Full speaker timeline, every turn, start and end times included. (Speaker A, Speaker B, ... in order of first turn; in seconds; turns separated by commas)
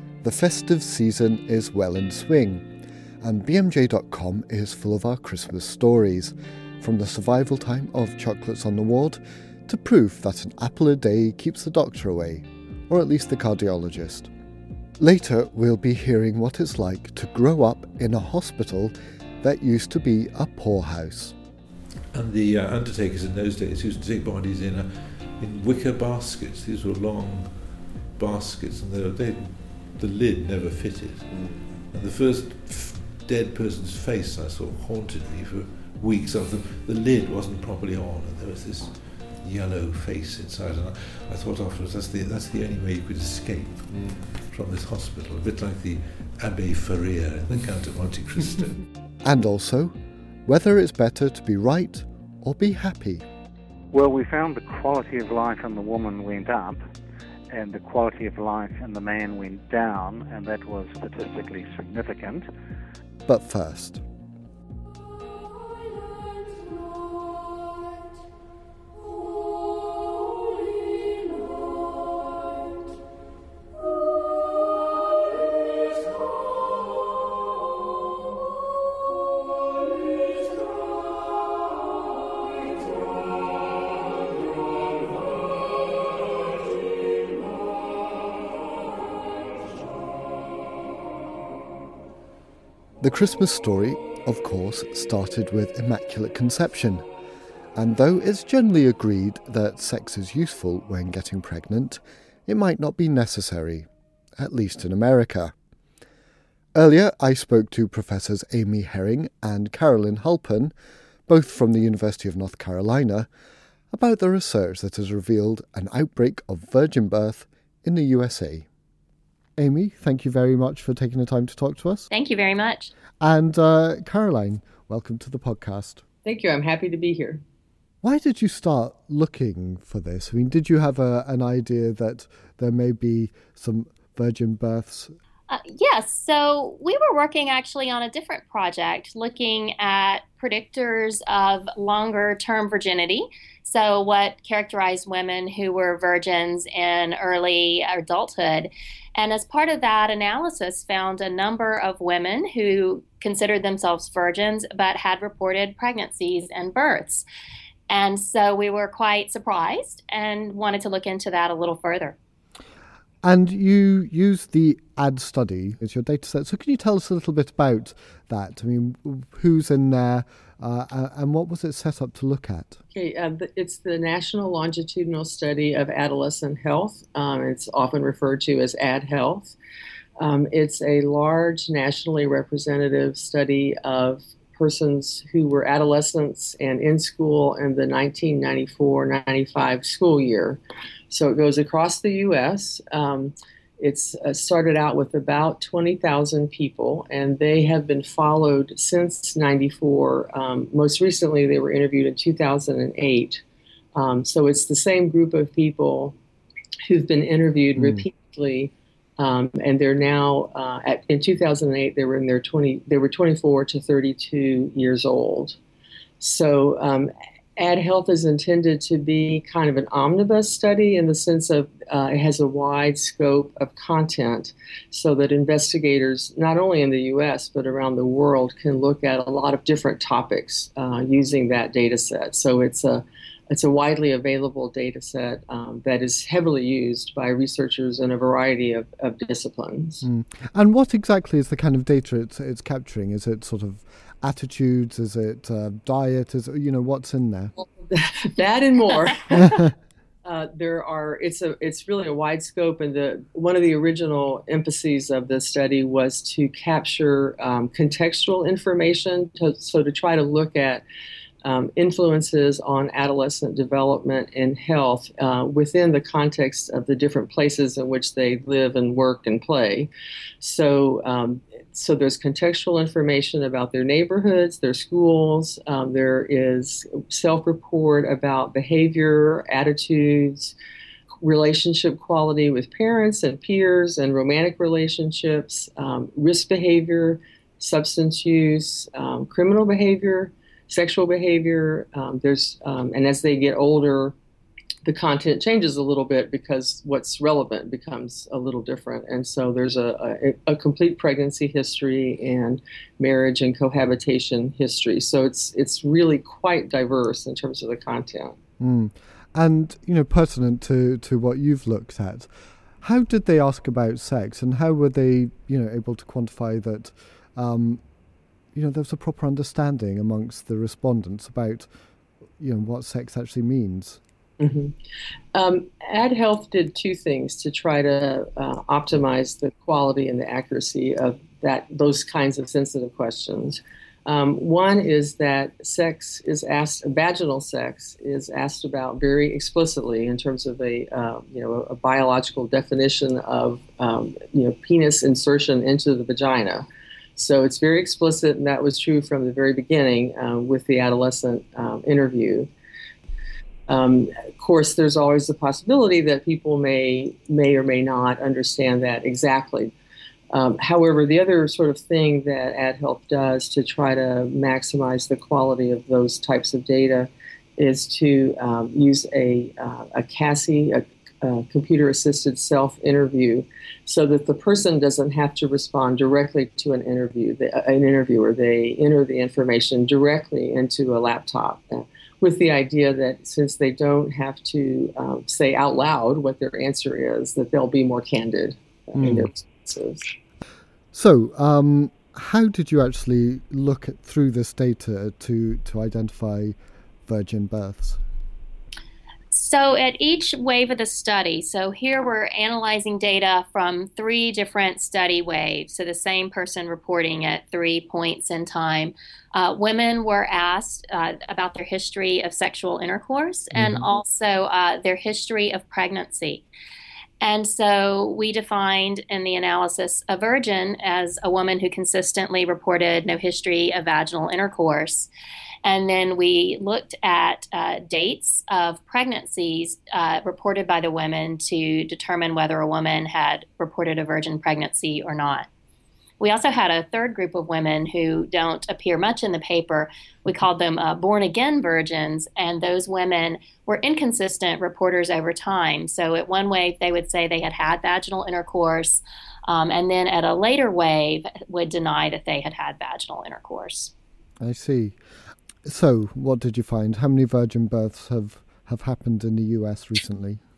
Speaker A: 0.2-2.6, Speaker A: 3.2-14.3, Speaker A: 15.0-21.3, Speaker B: 22.1-48.8, Speaker A: 49.2-49.9, Speaker A: 50.5-53.2, Speaker C: 53.9-56.8, Speaker C: 57.5-62.5, Speaker A: 63.2-64.0, Speaker A: 93.0-97.0, Speaker A: 97.8-105.5, Speaker A: 106.8-110.7, Speaker A: 111.3-113.3, Speaker A: 113.9-118.7, Speaker A: 119.6-122.1, Speaker D: 122.1-122.9, Speaker A: 123.2-126.0, Speaker E: 126.2-127.4, Speaker A: 128.0-135.1, Speaker D: 135.5-157.2, Speaker D: 157.9-162.2, Speaker A: 163.2-172.8, Speaker E: 172.9-179.6, Speaker E: 180.2-203.4, Speaker E: 203.9-206.2, Speaker E: 206.9-215.6, Speaker A: 207.8-208.1, Speaker E: 216.2-240.1, Speaker A: 240.0-247.5, Speaker E: 247.6-249.7, Speaker A: 249.3-249.7, Speaker E: 250.2-260.8, Speaker E: 261.4-269.9, Speaker E: 270.4-280.5, Speaker E: 281.2-294.1, Speaker E: 294.8-308.4, Speaker A: 308.6-312.3, Speaker A: 312.8-317.8, Speaker A: 318.5-321.7, Speaker A: 322.4-324.0, Speaker E: 324.4-324.7, Speaker E: 325.3-346.6, Speaker E: 347.2-352.5, Speaker E: 353.7-359.7, Speaker E: 360.3-390.0, Speaker A: 388.9-389.3, Speaker A: 390.9-396.6, Speaker A: 397.1-398.0, Speaker D: 399.3-416.4, Speaker A: 413.5-413.9, Speaker D: 417.2-425.1, Speaker D: 425.6-435.5, Speaker D: 436.2-453.9, Speaker A: 454.4-455.0, Speaker A: 455.6-460.4